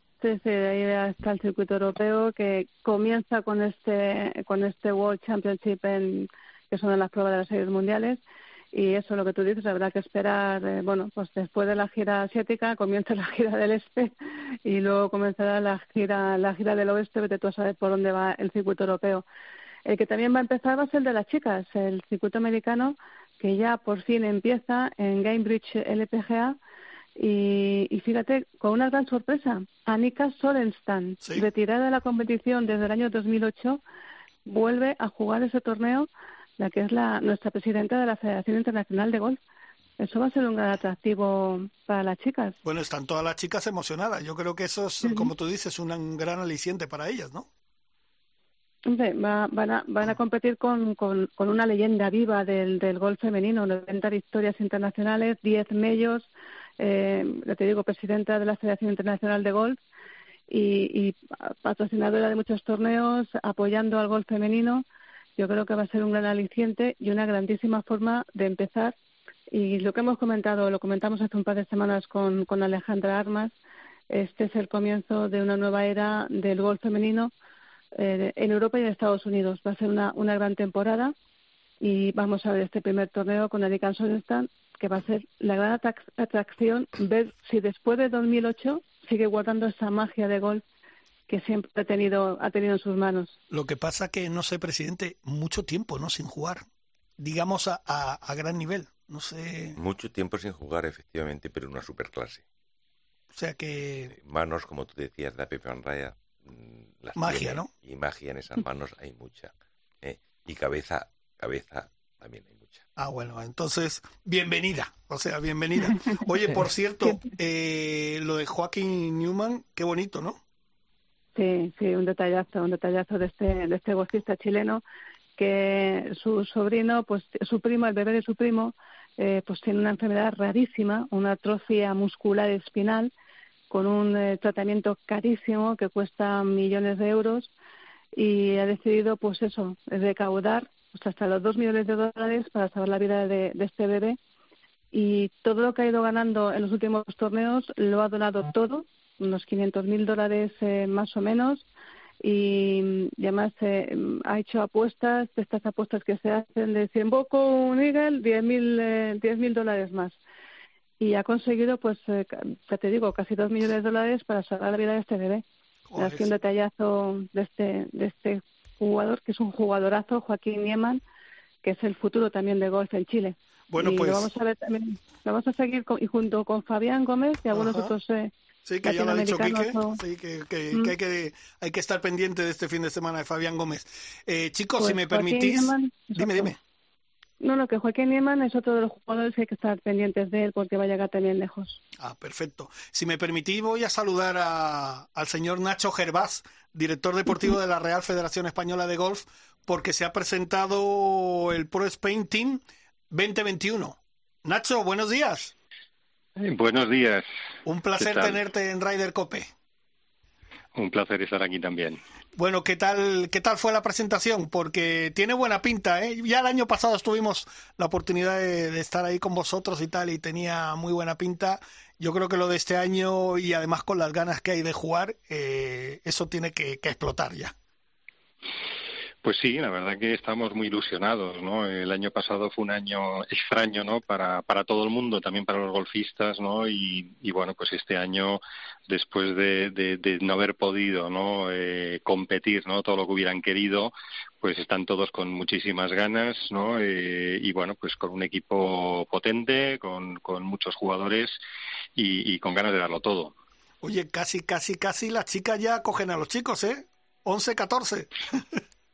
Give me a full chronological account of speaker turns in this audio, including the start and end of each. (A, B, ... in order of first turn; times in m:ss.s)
0:00.2-0:08.2 A
0:08.7-0:14.1 A
0:14.6-0:19.2 A
0:19.9-0:26.6 A
0:27.2-0:33.8 A
0:31.2-0:31.5 B
0:34.4-0:39.4 A
0:40.0-0:42.6 A
0:42.6-0:47.5 B
0:45.0-0:45.3 A
0:48.9-0:59.8 A
1:00.5-1:04.8 A
1:05.4-1:09.0 A
1:09.5-1:13.6 A
1:14.1-1:17.3 A
1:18.0-1:21.2 A
1:21.8-1:30.6 A
1:31.3-1:33.4 A
1:33.5-1:36.7 B
1:37.2-1:39.8 B
1:39.8-1:42.4 C
1:43.3-1:44.2 B
1:44.2-1:52.9 C
1:47.2-1:47.7 B
1:53.0-2:00.4 B
2:01.4-2:04.8 A
2:05.4-2:13.1 A
2:13.7-2:17.5 A
2:18.1-2:24.2 A
2:24.9-2:31.7 A
2:32.2-2:40.2 A
2:41.0-2:45.4 A
2:45.9-2:46.3 B
2:46.0-2:51.0 A
2:51.6-2:58.3 A
2:53.7-2:54.3 B
2:57.5-2:57.9 B
2:58.7-3:06.6 B
2:58.8-3:00.0 A
3:04.8-3:06.5 A
3:07.4-3:11.8 A
3:12.0-3:25.5 B
3:26.4-3:27.3 D
3:27.6-3:29.5 B
3:28.0-3:28.4 D
3:30.8-3:32.0 D
3:32.4-3:47.6 B
3:49.2-4:11.4 D
4:12.0-4:13.4 D
4:13.8-4:18.4 B